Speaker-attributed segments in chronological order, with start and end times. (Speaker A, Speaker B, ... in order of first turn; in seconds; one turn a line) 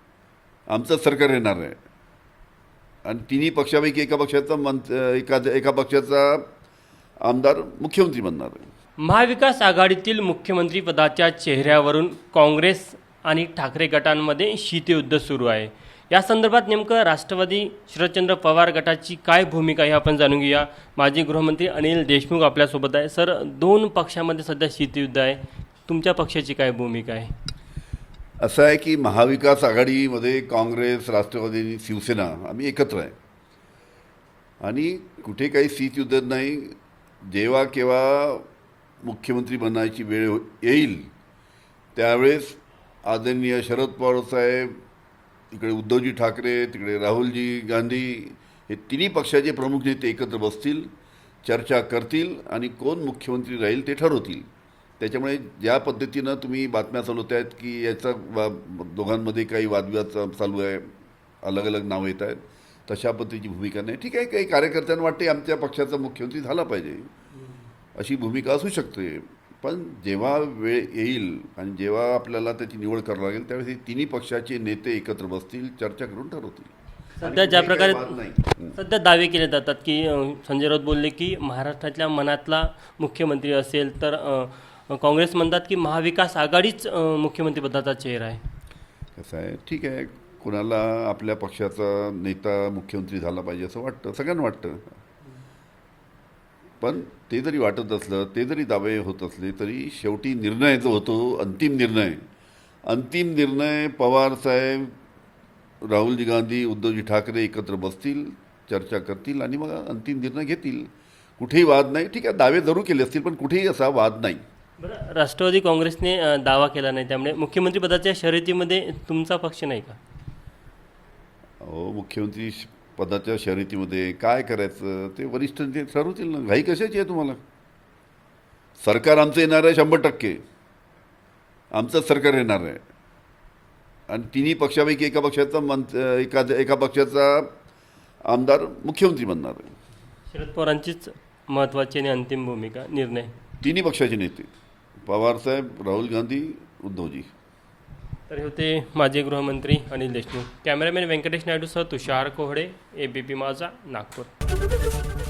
Speaker A: 0.7-1.8
Speaker A: 3.0-6.5
Speaker A: 7.2-8.7
Speaker B: 9.0-27.3
Speaker A: 28.4-33.1
Speaker A: 34.6-38.5
Speaker A: 39.0-41.1
Speaker A: 42.0-44.8
Speaker A: 45.5-50.9
Speaker A: 51.4-54.5
Speaker A: 55.0-60.9
Speaker A: 61.4-67.1
Speaker A: 68.0-78.8
Speaker B: 77.2-78.2
Speaker B: 78.8-88.4
Speaker A: 89.2-94.9
Speaker A: 96.8-102.2
Speaker A: 102.9-104.9
Speaker A: 105.8-114.4
Speaker B: 114.8-120.0
Speaker A: 121.6-127.4
Speaker A: 128.8-130.4
Speaker A: 131.7-132.8
Speaker A: 134.1-137.5
Speaker A: 138.3-139.7
Speaker B: 140.3-143.3
Speaker A: 143.6-144.5
Speaker A: 145.1-147.3
Speaker B: 148.3-154.3